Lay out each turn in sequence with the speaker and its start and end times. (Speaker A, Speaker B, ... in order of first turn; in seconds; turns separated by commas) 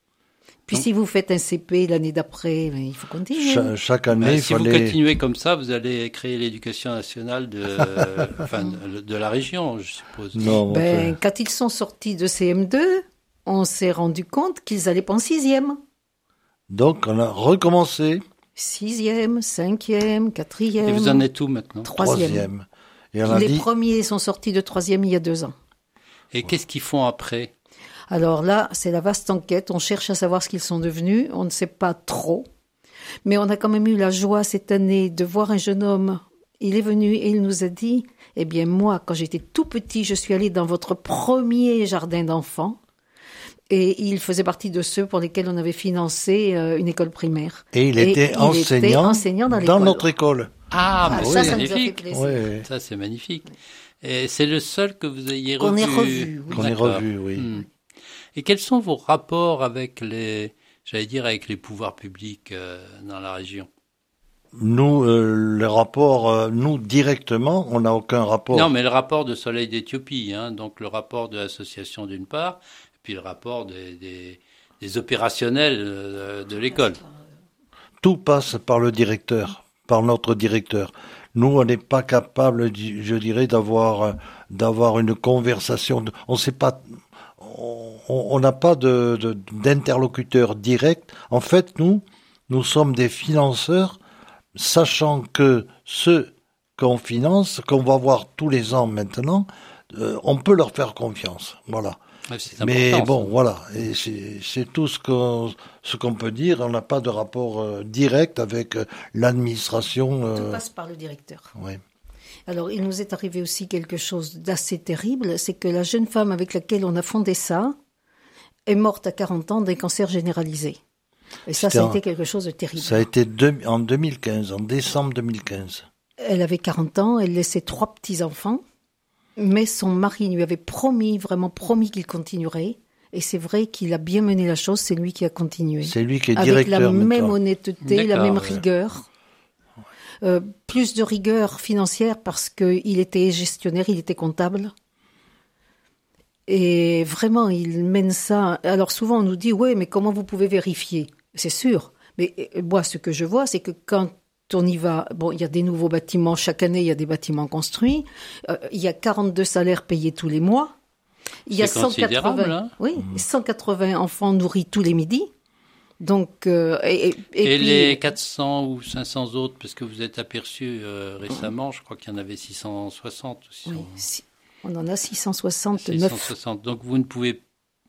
Speaker A: 0.7-3.7, Speaker B: 3.3-5.0, Speaker C: 4.1-10.5, Speaker B: 10.3-11.2, Speaker A: 10.7-15.8, Speaker B: 16.7-18.2, Speaker A: 18.6-21.2, Speaker C: 20.8-21.9, Speaker A: 21.8-22.5, Speaker B: 22.0-23.7, Speaker A: 23.3-25.6, Speaker C: 26.3-27.5, Speaker A: 28.1-32.5, Speaker A: 33.2-42.8, Speaker A: 43.7-50.1, Speaker B: 47.7-50.5, Speaker C: 50.7-52.0, Speaker B: 51.0-52.7, Speaker A: 51.0-52.5, Speaker C: 52.6-57.7, Speaker A: 55.6-56.7, Speaker B: 56.5-57.5, Speaker C: 58.4-63.7, Speaker B: 64.5-68.7, Speaker C: 68.5-77.0, Speaker B: 78.0-94.0, Speaker B: 94.6-102.0, Speaker C: 102.3-103.3, Speaker B: 102.6-110.6, Speaker A: 110.3-111.5, Speaker A: 112.5-117.8, Speaker A: 118.7-120.8, Speaker A: 121.5-123.1, Speaker B: 121.5-122.0, Speaker B: 122.8-125.9, Speaker A: 126.2-128.6, Speaker A: 129.4-139.1, Speaker B: 135.8-137.3, Speaker C: 137.8-138.6, Speaker A: 140.2-144.7, Speaker A: 146.5-160.8, Speaker A: 161.5-165.3, Speaker C: 161.5-162.7, Speaker A: 166.0-168.1, Speaker C: 167.4-174.0, Speaker A: 173.7-176.3, Speaker C: 175.8-177.4